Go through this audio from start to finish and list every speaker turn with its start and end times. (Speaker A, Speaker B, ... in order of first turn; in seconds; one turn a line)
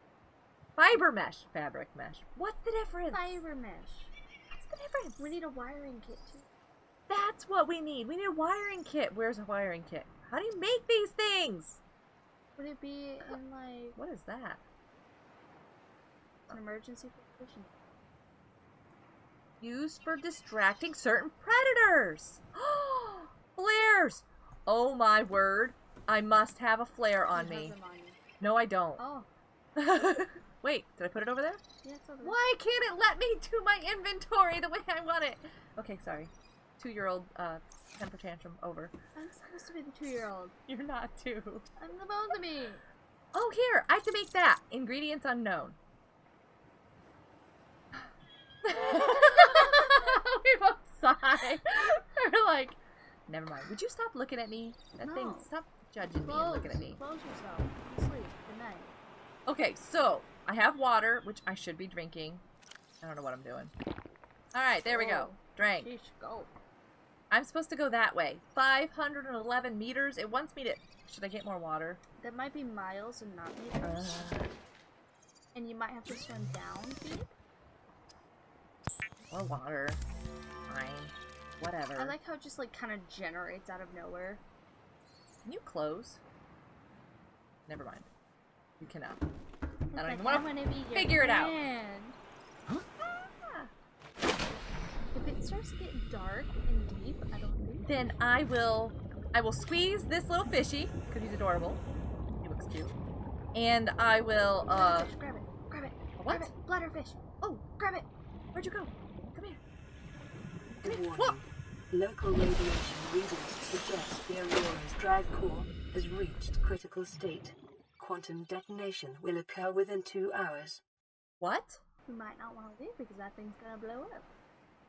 Speaker A: 0.8-3.4
Speaker B: 3.1-4.1
Speaker A: 4.5-5.2
Speaker B: 5.2-6.5
Speaker A: 7.1-11.8
Speaker B: 12.6-14.0
Speaker A: 13.9-14.6
Speaker B: 16.5-17.9
Speaker A: 19.6-27.8
Speaker B: 27.3-28.2
Speaker A: 28.4-29.0
Speaker B: 29.0-29.3
Speaker A: 29.8-31.6
Speaker B: 31.8-32.4
Speaker A: 32.2-38.9
Speaker B: 39.1-40.5
Speaker A: 40.7-41.6
Speaker B: 41.8-42.8
Speaker A: 43.3-45.8
Speaker A: 48.6-57.0
Speaker B: 49.3-49.8
Speaker B: 55.0-55.5
Speaker B: 56.2-58.9
Speaker A: 59.5-62.4
Speaker A: 63.0-63.7
Speaker A: 64.5-65.9
Speaker B: 64.9-66.5
Speaker A: 67.3-72.0
Speaker B: 72.2-74.2
Speaker A: 73.8-74.5
Speaker B: 75.5-77.3
Speaker A: 79.3-80.0
Speaker A: 80.7-82.2
Speaker B: 82.0-84.4
Speaker A: 85.4-86.2
Speaker A: 87.7-88.1
Speaker A: 88.8-89.2
Speaker B: 89.9-92.2
Speaker A: 89.9-91.6
Speaker A: 93.0-93.7
Speaker B: 95.1-98.2
Speaker A: 97.8-101.8
Speaker A: 102.4-103.0
Speaker A: 103.5-105.1
Speaker B: 104.7-107.2
Speaker A: 106.2-106.5
Speaker B: 107.8-108.1
Speaker A: 108.5-109.6
Speaker C: 110.8-120.8
Speaker A: 110.8-111.4
Speaker A: 121.4-121.8
Speaker B: 122.0-124.3